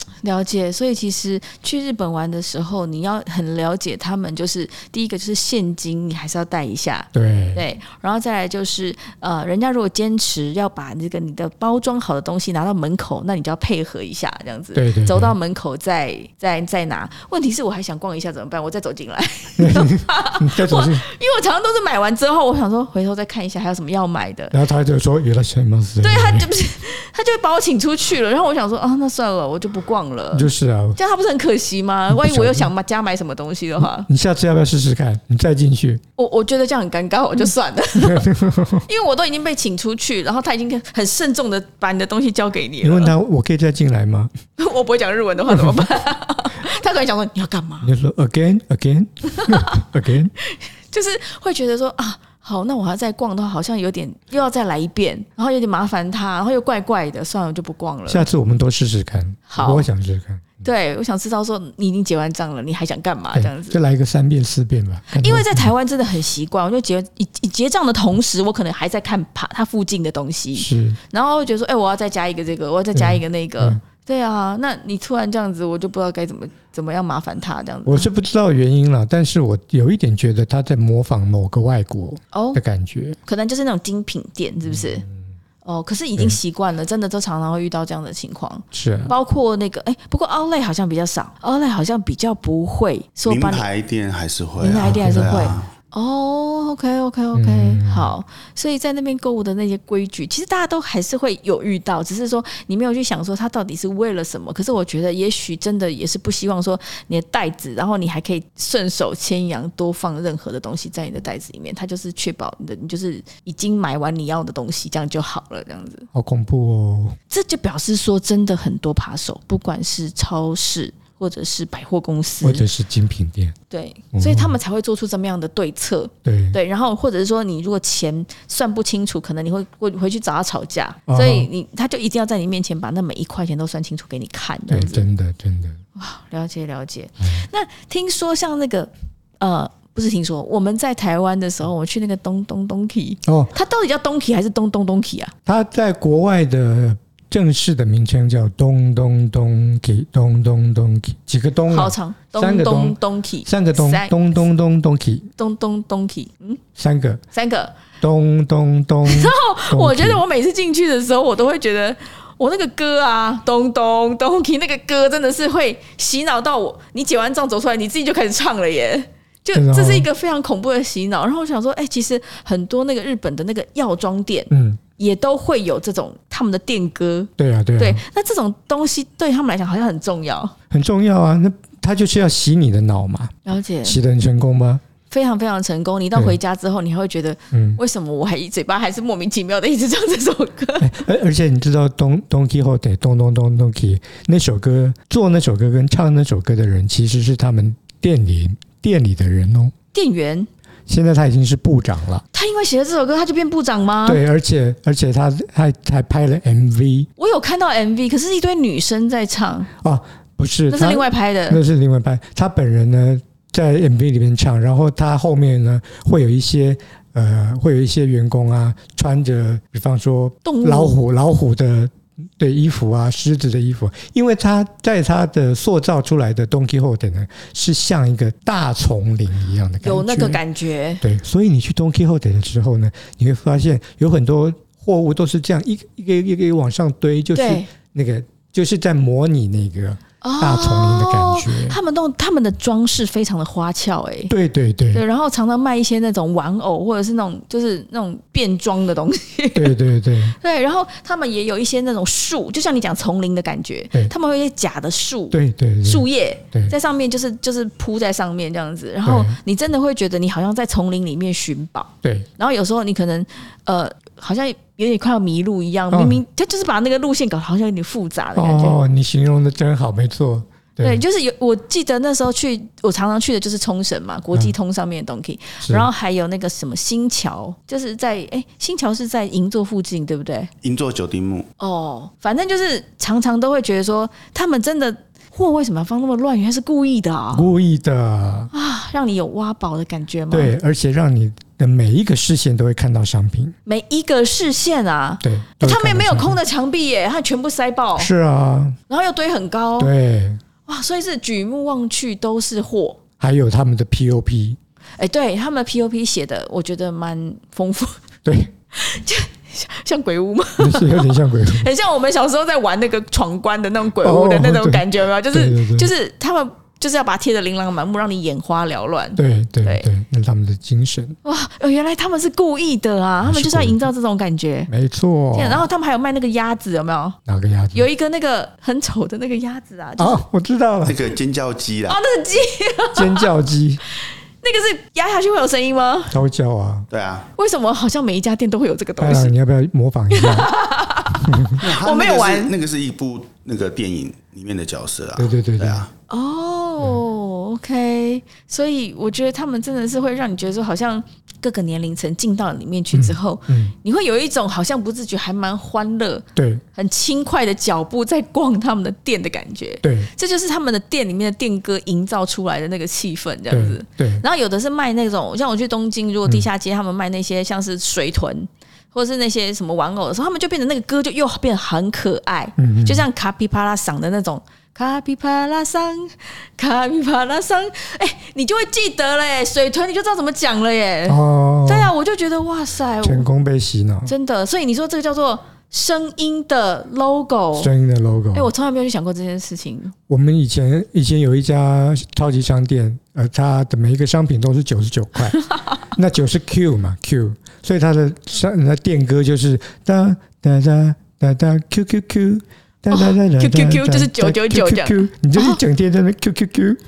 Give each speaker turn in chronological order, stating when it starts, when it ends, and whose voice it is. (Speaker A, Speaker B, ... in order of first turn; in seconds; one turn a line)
Speaker A: 0.2-24.6
Speaker B: 7.1-7.6
Speaker B: 14.8-15.3
Speaker B: 19.6-21.0
Speaker B: 24.5-26.5
Speaker A: 26.0-34.1
Speaker B: 30.3-31.0
Speaker B: 32.1-32.7
Speaker B: 33.8-36.0
Speaker A: 36.2-38.3
Speaker B: 38.0-38.9
Speaker A: 38.9-43.1
Speaker B: 42.8-44.3
Speaker A: 44.6-47.9
Speaker B: 45.5-45.9
Speaker B: 47.8-50.3
Speaker A: 49.4-49.8
Speaker A: 50.4-58.3
Speaker B: 58.1-60.6
Speaker A: 59.5-59.9
Speaker A: 60.6-63.8
Speaker B: 63.3-65.7
Speaker A: 65.2-78.1
Speaker B: 70.5-71.0
Speaker B: 72.9-73.8
Speaker B: 77.9-83.2
Speaker A: 82.3-82.6
Speaker A: 83.2-85.0
Speaker B: 84.6-85.1
Speaker A: 85.6-93.7
Speaker B: 88.7-89.1
Speaker C: 93.2-95.7
Speaker A: 94.6-116.1
Speaker B: 94.7-95.5
Speaker B: 97.3-98.1
Speaker B: 116.1-117.2
Speaker A: 117.3-122.6
Speaker B: 122.4-123.5
Speaker A: 123.7-135.1
Speaker B: 124.1-124.5
Speaker B: 126.2-126.6
Speaker B: 131.1-131.5
Speaker B: 134.7-135.8
Speaker A: 136.0-145.3
Speaker B: 137.2-137.5
Speaker B: 143.2-143.5
Speaker B: 145.5-155.3
Speaker A: 151.7-154.1
Speaker A: 155.4-156.6
Speaker B: 156.8-157.2
Speaker A: 157.3-157.8
Speaker B: 158.0-160.2
Speaker A: 159.1-180.5
Speaker B: 169.5-170.1
Speaker B: 174.5-174.8
Speaker B: 177.4-178.0
Speaker B: 180.7-184.8
Speaker A: 183.5-184.0
Speaker A: 185.1-190.9
Speaker B: 187.5-187.8
Speaker B: 190.8-199.7
Speaker A: 199.9-200.5
Speaker B: 200.9-202.2
Speaker A: 202.3-204.2
Speaker B: 204.0-207.1
Speaker A: 207.2-209.7
Speaker B: 209.8-230.4
Speaker A: 210.7-211.6
Speaker A: 220.4-221.0
Speaker A: 229.8-231.0
Speaker B: 231.0-241.8
Speaker A: 237.3-237.7
Speaker A: 240.2-244.3
Speaker B: 244.3-245.0
Speaker A: 244.9-249.8
Speaker B: 249.5-250.3
Speaker A: 250.3-268.8
Speaker B: 255.3-256.7
Speaker B: 259.0-259.4
Speaker B: 262.0-262.3
Speaker B: 265.9-266.2
Speaker B: 268.3-271.0
Speaker A: 270.8-280.5
Speaker B: 275.6-275.9
Speaker C: 280.6-281.5
Speaker A: 281.6-287.5
Speaker B: 287.3-288.5
Speaker A: 288.5-290.5
Speaker B: 290.3-293.6
Speaker A: 293.7-298.1
Speaker B: 295.2-296.4
Speaker B: 298.0-298.8
Speaker A: 298.9-299.9
Speaker B: 299.8-300.4
Speaker A: 300.7-303.0
Speaker B: 303.2-304.6
Speaker A: 305.0-308.0
Speaker B: 308.2-308.5
Speaker A: 308.7-319.9
Speaker B: 310.6-311.7
Speaker B: 314.0-315.9
Speaker B: 319.2-321.2
Speaker A: 321.2-324.7
Speaker B: 323.2-323.9
Speaker B: 324.7-325.7
Speaker A: 325.3-327.2
Speaker B: 327.3-327.9
Speaker A: 327.7-330.2
Speaker B: 330.0-331.0
Speaker C: 330.8-332.0
Speaker A: 331.9-333.3
Speaker B: 332.9-333.8
Speaker A: 334.4-336.2
Speaker B: 336.1-336.9
Speaker C: 336.9-337.3
Speaker A: 337.4-339.3
Speaker B: 339.0-340.5
Speaker A: 340.1-342.5
Speaker B: 341.2-341.6
Speaker C: 341.6-345.9
Speaker B: 345.2-345.9
Speaker A: 346.1-383.3
Speaker B: 352.9-353.7
Speaker B: 356.4-356.6
Speaker B: 359.8-360.1
Speaker B: 363.5-364.2
Speaker B: 372.6-373.1
Speaker B: 381.1-381.9
Speaker B: 383.0-384.1
Speaker A: 384.1-387.7
Speaker B: 387.6-388.5
Speaker A: 388.3-389.9
Speaker B: 390.1-406.8
Speaker A: 402.9-405.6